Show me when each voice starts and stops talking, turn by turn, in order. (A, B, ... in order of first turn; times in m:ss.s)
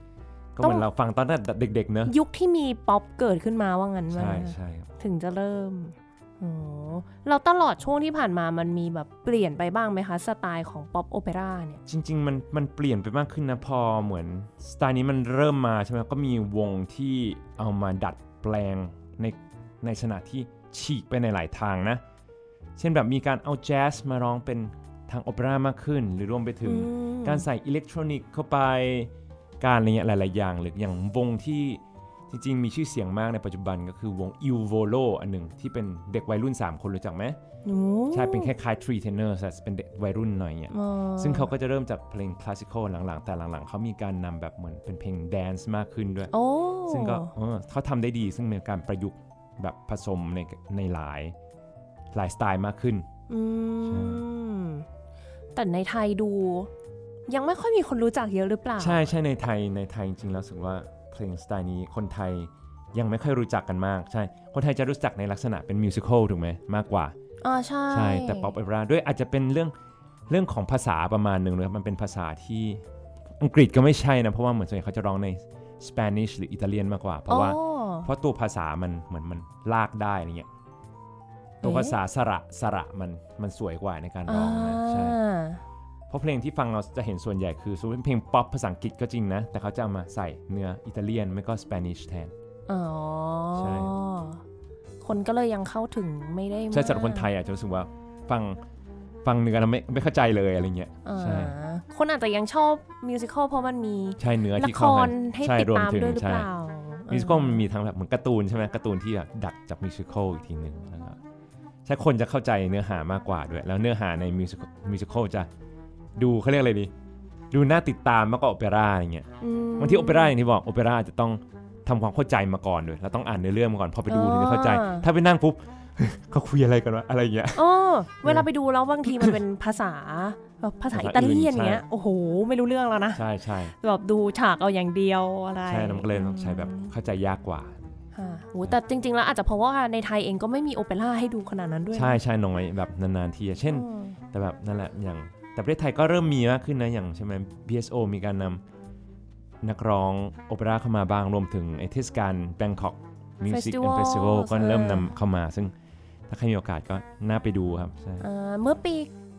0:00.5-0:02.1 A
0:02.0-0:11.8 B
0:04.1-0:04.9 A
0:11.8-0:22.0 A
0:22.8-0:29.1 A
0:26.6-0:27.5 B
0:29.6-0:37.4 A
0:37.6-0:38.5 B
0:38.1-0:46.3 A
0:40.7-0:41.5 B
0:46.3-0:47.3 B
0:46.9-0:51.3 A
0:52.1-0:53.1 A
0:53.3-0:54.8 B
0:53.8-0:54.2 A
0:55.5-0:56.7 B
0:57.3-0:59.1 B
0:58.8-1:07.1 A
1:07.4-1:08.5 B
1:07.9-1:09.7 A
1:10.3-1:12.8 A
1:13.4-1:20.5 A
1:17.3-1:18.1 B
1:21.6-1:22.0 B
1:21.6-1:25.2 A
1:24.2-1:25.6 B
1:26.1-1:32.3 A
1:32.7-1:34.4 B
1:33.5-1:33.9 A
1:35.0-1:37.3 B
1:36.7-1:38.6 A
1:39.2-1:41.5 A
1:41.0-1:47.6 B
1:44.2-1:46.5 A
1:47.1-1:51.2 A
1:51.8-1:55.5 A
1:56.2-1:56.9 A
1:57.5-1:59.3 A
1:59.4-2:00.3 B
1:59.8-2:07.6 A
2:04.1-2:05.0 B
2:07.5-2:16.9 B
2:10.9-2:11.8 A
2:13.1-2:13.7 A
2:15.7-2:18.0 A
2:18.1-2:22.2 B
2:21.9-2:28.6 A
2:23.7-2:24.2 B
2:29.6-2:35.7 A
2:33.4-2:35.1 B
2:36.3-2:38.2 A
2:38.2-2:39.1 B